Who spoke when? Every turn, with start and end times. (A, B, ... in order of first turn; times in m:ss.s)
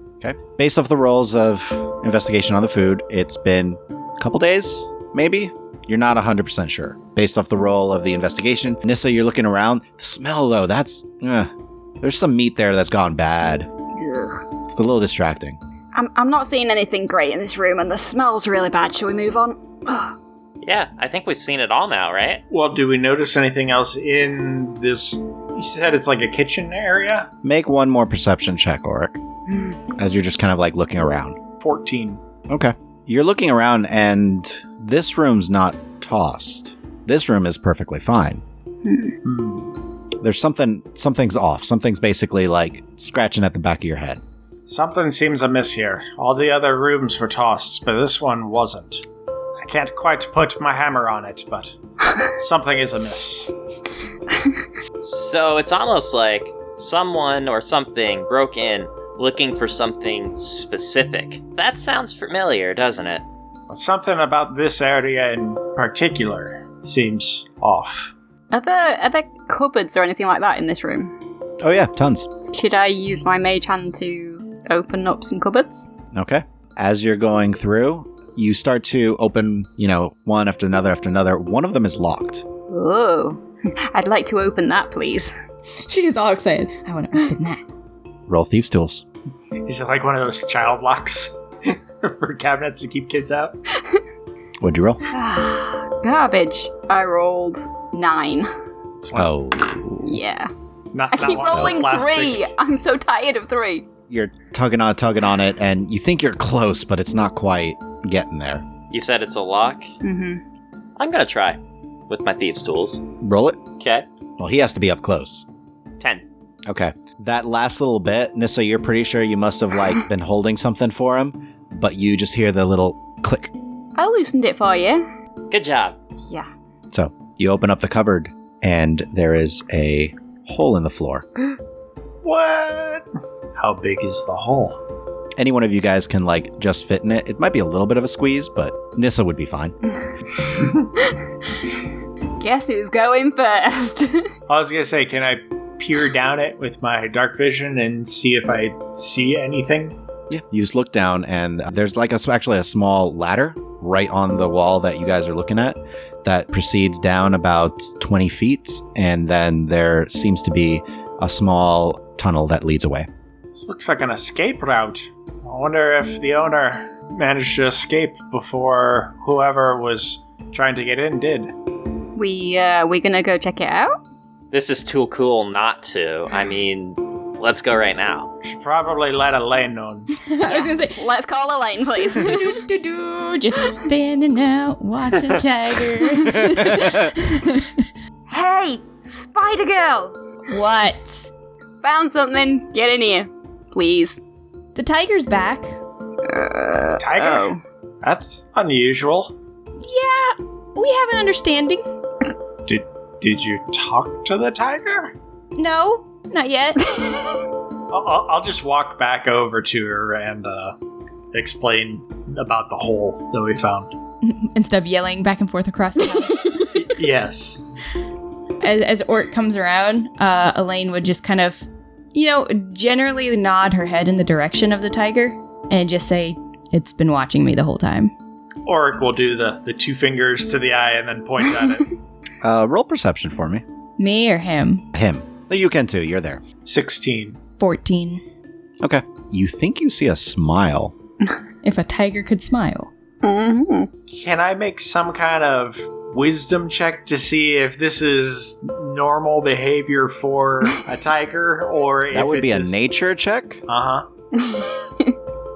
0:00.2-0:13.7 A
0:14.0-0:14.4 B
0:14.7-0:15.6 A
0:15.9-0:20.2 B
0:20.6-0:22.4 C
0:22.5-0:27.3 D
0:27.4-0:29.2 A
0:29.5-0:29.8 B
0:30.0-0:31.4 A
0:31.6-0:32.2 D
0:32.5-0:38.4 A
0:38.8-0:39.2 B
0:39.2-0:39.8 D
0:40.2-0:44.2 A
0:44.7-0:49.0 D
0:49.6-0:53.5 D
0:55.0-1:03.2 C
1:03.7-1:08.1 D
1:08.5-1:11.1 B
1:11.6-1:12.3 A
1:12.5-1:15.9 B
1:16.1-1:22.4 A
1:22.7-1:25.3 B
1:25.8-1:27.6 E
1:28.3-1:29.0 A
1:29.6-1:33.6 D
1:33.8-1:34.0 B
1:34.6-1:35.0 A
1:35.1-1:38.5 B
1:39.0-1:39.3 D
1:39.1-1:40.2 A
1:40.0-1:40.5 B
1:40.9-1:42.5 D
1:41.1-1:43.9 B
1:41.5-1:41.8 A
1:44.1-1:48.6 A
1:48.9-1:49.9 C
1:50.0-1:50.4 B
1:51.0-1:53.0 C
1:53.2-1:53.6 A
1:53.8-1:54.1 C
1:54.4-1:55.4 A
1:56.7-2:03.5 A
2:04.0-2:05.1 B
2:05.5-2:06.0 C
2:06.2-2:06.5 B
2:06.9-2:11.3 A
2:12.2-2:14.8 D
2:15.4-2:19.8 A
2:21.0-2:21.7 B
2:22.4-2:24.3 B
2:24.5-2:30.0 D
2:30.3-2:43.1 A
2:43.5-2:51.5 D
2:52.2-2:54.0 B
2:54.5-2:58.3 C
2:58.4-3:00.1 D
3:00.2-3:01.0 E
3:00.4-3:02.6 B
3:02.1-3:07.9 E
3:06.2-3:07.1 A
3:08.3-3:10.2 B
3:10.5-3:11.3 E
3:11.8-3:14.2 B
3:14.8-3:15.8 E
3:16.2-3:17.6 B
3:17.0-3:19.3 D
3:19.8-3:21.8 E
3:22.7-3:25.1 D
3:25.6-3:27.0 E
3:27.9-3:30.8 D
3:31.3-3:34.0 D
3:34.2-3:36.8 E
3:36.8-3:37.6 D
3:38.6-3:48.1 E
3:48.6-3:51.9 D
3:52.4-3:53.6 A
3:54.0-3:54.9 E
3:54.9-3:56.4 A
3:56.6-3:57.4 D
3:57.6-3:58.2 E
3:58.8-4:00.9 A
4:01.6-4:02.9 E
4:03.2-4:03.9 B
4:04.1-4:12.9 D
4:12.1-4:13.6 A
4:13.7-4:14.1 D
4:14.3-4:15.2 B